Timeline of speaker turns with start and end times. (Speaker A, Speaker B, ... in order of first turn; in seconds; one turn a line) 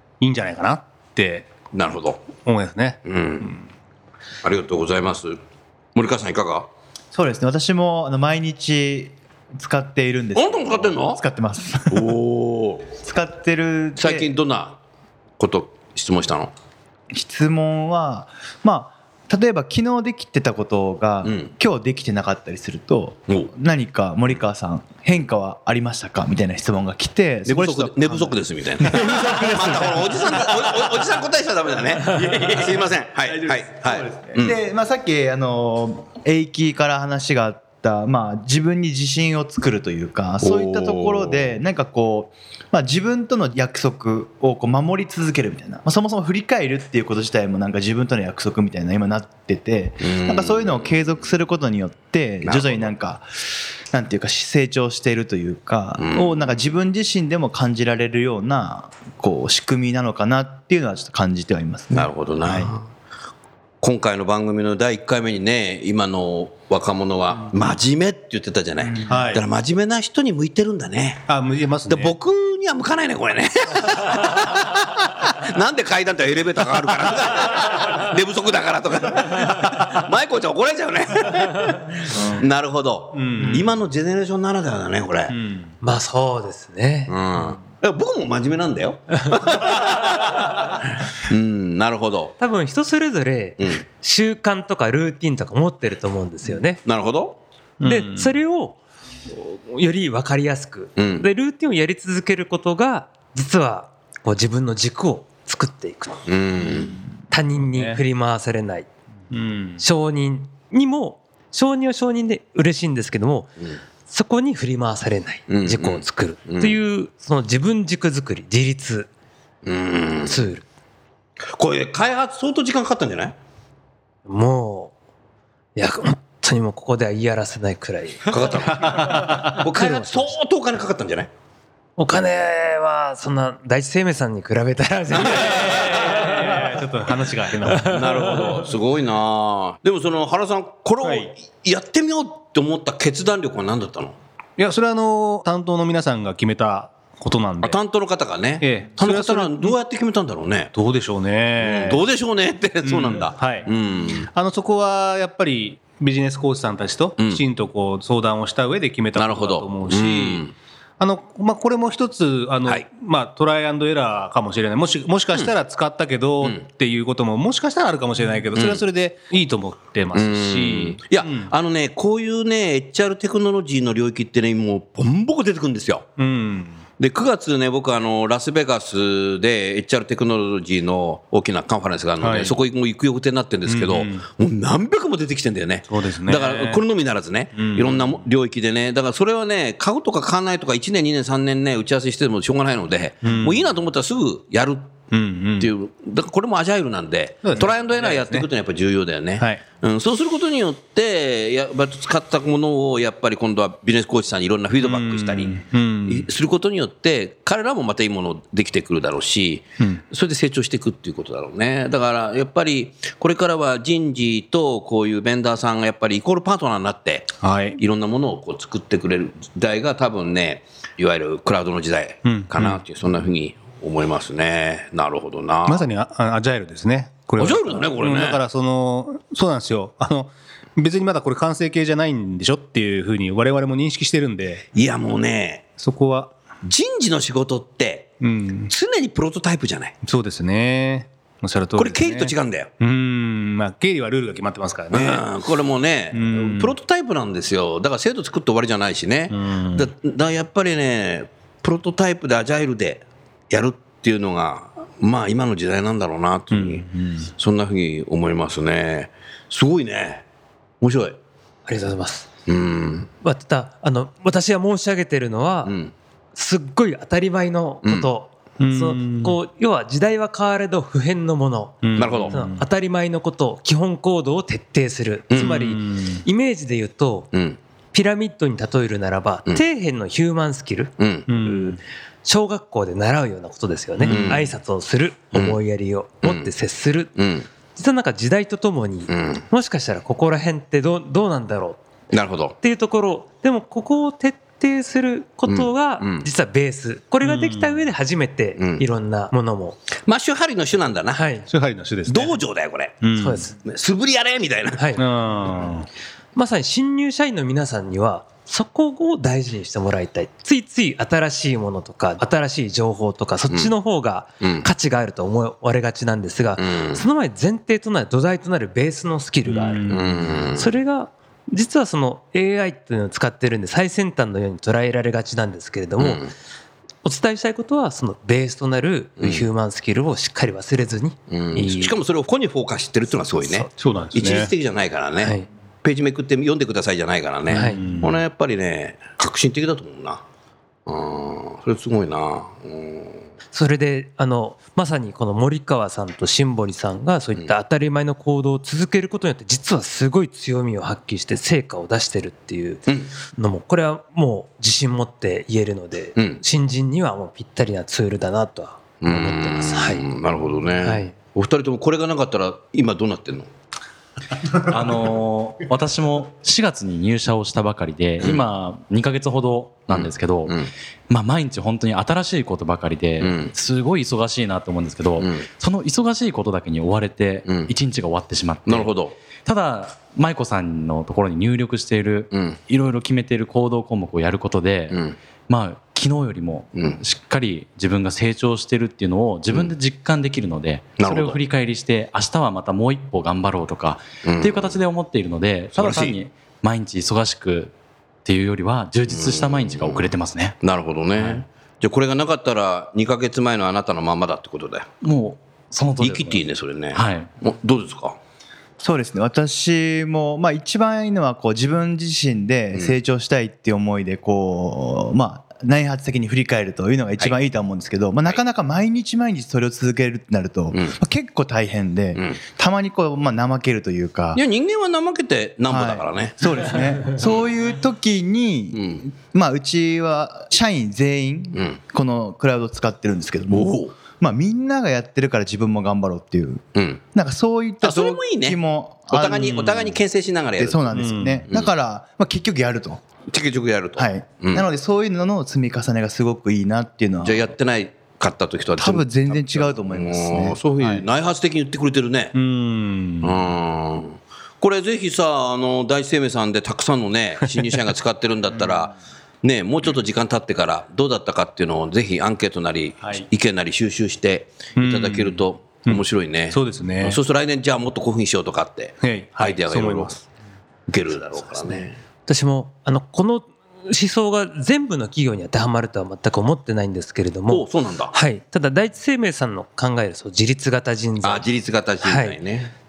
Speaker A: 0.2-1.5
Speaker B: 1.7-2.3
Speaker A: 2.5-3.6
Speaker B: 3.0-3.6
Speaker B: 4.4-5.4
Speaker B: 6.0-6.7
Speaker C: 7.1-12.1
Speaker B: 10.3-11.2
Speaker B: 11.9-12.9
Speaker C: 13.0-14.3
Speaker B: 14.0-14.8
Speaker B: 15.4-16.5
Speaker C: 17.1-30.4
Speaker B: 21.2-21.5
Speaker B: 27.5-34.6
Speaker C: 32.2-32.5
Speaker C: 33.3-53.3
Speaker B: 40.4-41.6
Speaker B: 50.0-51.0
Speaker B: 52.4-52.9
Speaker C: 53.9-62.7
Speaker B: 56.0-56.6
Speaker B: 61.9-62.9
Speaker B: 63.8-71.2
Speaker A: 69.1-69.4
Speaker A: 71.3-72.1
Speaker B: 71.9-85.3
Speaker A: 82.1-82.4
Speaker A: 83.1-83.8
Speaker A: 85.3-85.7
Speaker D: 85.8-87.1
Speaker B: 87.1-92.4
Speaker D: 92.4-96.8
Speaker B: 96.8-97.4
Speaker A: 97.8-98.3
Speaker D: 97.8-98.8
Speaker D: 99.3-106.2
Speaker B: 101.0-101.3
Speaker B: 106.3-107.0
Speaker D: 107.3-108.9
Speaker A: 107.7-108.0
Speaker A: 109.3-109.8
Speaker D: 109.8-113.5
Speaker D: 114.1-119.1
Speaker B: 115.5-116.8
Speaker B: 119.6-120.4
Speaker D: 120.3-120.7
Speaker B: 121.5-123.4
Speaker D: 124.3-124.9
Speaker D: 125.8-128.3
Speaker B: 128.3-131.3
Speaker A: 128.7-129.6
Speaker D: 129.6-130.4
Speaker D: 132.0-136.5
Speaker B: 135.1-136.4
Speaker A: 135.4-138.0
Speaker B: 137.8-144.2
Speaker D: 137.9-138.3
Speaker A: 141.0-141.3
Speaker A: 144.6-147.8
Speaker B: 147.6-150.7
Speaker A: 148.6-149.8
Speaker A: 150.8-152.0
Speaker B: 151.6-154.3
Speaker A: 152.8-153.7
Speaker A: 154.3-160.5
Speaker B: 157.2-157.4
Speaker B: 159.2-160.5
Speaker A: 161.0-171.5
Speaker B: 168.6-168.8
Speaker B: 170.1-176.1
Speaker A: 176.2-176.8
Speaker B: 177.0-195.0
Speaker A: 182.2-182.6
Speaker A: 183.7-184.2
Speaker A: 185.9-186.8
Speaker A: 187.6-188.1
Speaker A: 193.2-193.6
Speaker A: 195.1-195.7
Speaker B: 195.6-225.8
Speaker A: 197.4-198.5
Speaker A: 204.8-206.3
Speaker A: 217.4-217.8
Speaker A: 222.3-222.8
Speaker A: 225.7-234.7
Speaker B: 227.4-228.4
Speaker B: 234.8-235.7
Speaker A: 235.8-236.3
Speaker B: 236.6-238.2
Speaker A: 238.2-238.7
Speaker B: 238.7-240.0
Speaker A: 240.0-245.2
Speaker B: 241.8-242.7
Speaker B: 244.9-260.2
Speaker A: 246.1-246.8
Speaker A: 249.3-249.9
Speaker A: 256.5-257.3
Speaker B: 260.8-261.2
Speaker D: 261.7-262.3
Speaker B: 262.5-263.1
Speaker D: 263.2-265.7
Speaker B: 265.6-265.9
Speaker D: 266.4-277.3
Speaker A: 268.6-269.4
Speaker A: 271.8-272.6
Speaker B: 272.0-272.4
Speaker B: 275.3-275.6
Speaker A: 275.4-276.2
Speaker B: 277.3-277.6
Speaker D: 277.9-287.1
Speaker B: 281.0-281.3
Speaker A: 281.3-281.8
Speaker A: 284.0-284.4
Speaker B: 284.1-284.5
Speaker B: 286.2-286.5
Speaker B: 287.1-287.5
Speaker D: 287.7-291.8
Speaker B: 289.1-289.4
Speaker B: 292.1-292.6
Speaker D: 292.6-299.8
Speaker B: 295.5-296.3
Speaker A: 297.2-297.8
Speaker B: 298.6-298.8
Speaker B: 300.1-301.3
Speaker D: 301.1-301.5
Speaker A: 301.5-302.4
Speaker B: 302.1-303.0
Speaker A: 303.0-303.5
Speaker D: 303.2-303.6
Speaker B: 303.6-305.0
Speaker D: 304.8-305.1
Speaker A: 305.0-305.9
Speaker D: 306.4-320.0
Speaker B: 314.4-314.7
Speaker B: 316.6-317.0
Speaker A: 319.5-320.4
Speaker B: 319.9-320.7
Speaker D: 320.5-326.2
Speaker B: 326.0-326.3
Speaker D: 327.0-332.0
Speaker B: 329.2-329.5
Speaker B: 331.3-340.2
Speaker A: 333.8-334.5
Speaker D: 335.2-335.5
Speaker D: 337.5-337.8
Speaker A: 337.5-338.2
Speaker B: 340.9-343.2
Speaker D: 343.5-360.1
Speaker B: 359.0-363.5
Speaker D: 360.8-361.1
Speaker E: 364.5-378.9
Speaker B: 369.9-370.7
Speaker B: 373.2-373.5
Speaker B: 375.2-375.5
Speaker B: 377.5-377.7
Speaker B: 378.7-379.1
Speaker E: 379.4-397.7
Speaker B: 382.3-382.6
Speaker B: 384.9-385.2
Speaker B: 386.8-387.0
Speaker B: 391.0-391.4
Speaker B: 394.2-394.8
Speaker B: 395.7-396.2
Speaker E: 398.2-400.6
Speaker B: 399.1-400.1
Speaker B: 400.6-404.9
Speaker E: 401.2-401.4
Speaker E: 405.0-406.4
Speaker B: 406.0-408.2
Speaker E: 406.9-407.3
Speaker C: 408.8-424.4
Speaker B: 424.4-427.4
Speaker C: 425.7-440.0
Speaker B: 428.7-429.1
Speaker B: 431.5-431.8
Speaker B: 433.5-433.9
Speaker B: 436.8-437.0
Speaker B: 437.8-440.9
Speaker C: 440.6-443.0
Speaker A: 440.9-441.5
Speaker B: 443.3-444.7
Speaker C: 444.0-447.5
Speaker B: 447.2-452.4
Speaker C: 448.8-450.6
Speaker A: 452.4-453.4
Speaker B: 453.2-470.2
Speaker A: 464.8-467.2
Speaker A: 469.0-470.2
Speaker B: 470.9-472.0
Speaker D: 472.3-481.5
Speaker B: 477.5-478.1
Speaker B: 481.2-482.7
Speaker D: 482.0-482.4